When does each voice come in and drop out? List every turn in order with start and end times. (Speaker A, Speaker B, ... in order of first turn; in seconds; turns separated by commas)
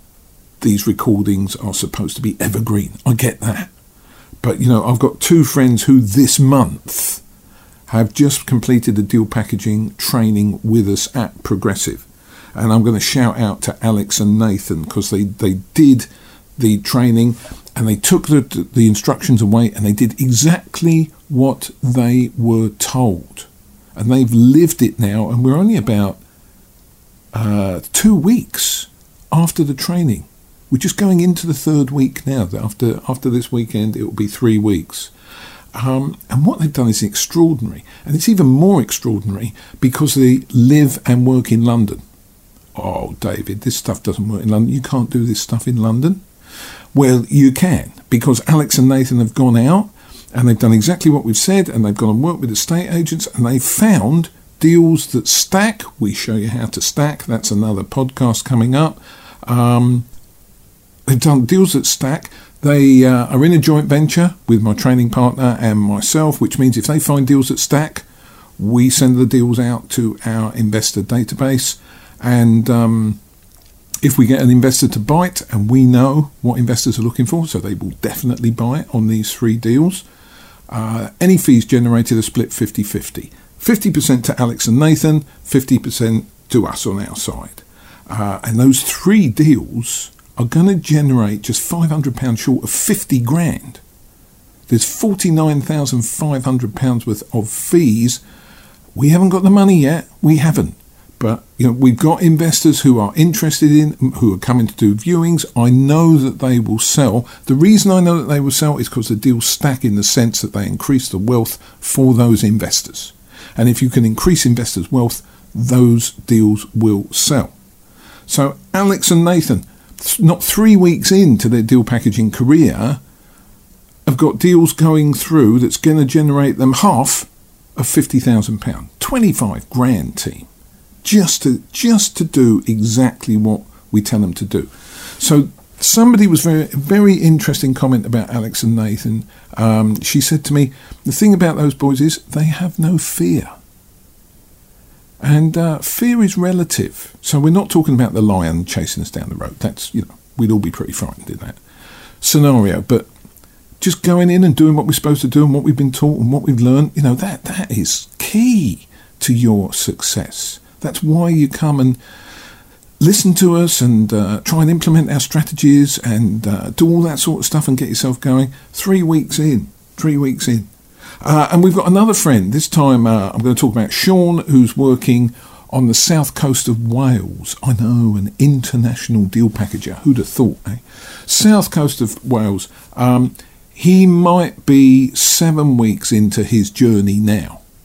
Speaker A: 0.6-3.7, Speaker A: 4.4-7.2, Speaker A: 7.9-26.2, Speaker A: 27.3-35.1, Speaker A: 35.7-42.0, Speaker A: 42.7-46.2, Speaker A: 46.9-60.1, Speaker A: 61.1-68.0, Speaker A: 68.6-73.2, Speaker A: 74.0-80.0, Speaker A: 80.7-93.8, Speaker A: 94.7-98.2, Speaker A: 98.9-117.5, Speaker A: 118.3-123.0, Speaker A: 124.0-130.5, Speaker A: 131.0-143.5, Speaker A: 145.2-151.6, Speaker A: 152.2-153.1, Speaker A: 153.8-162.0, Speaker A: 163.0-170.7, Speaker A: 171.2-187.6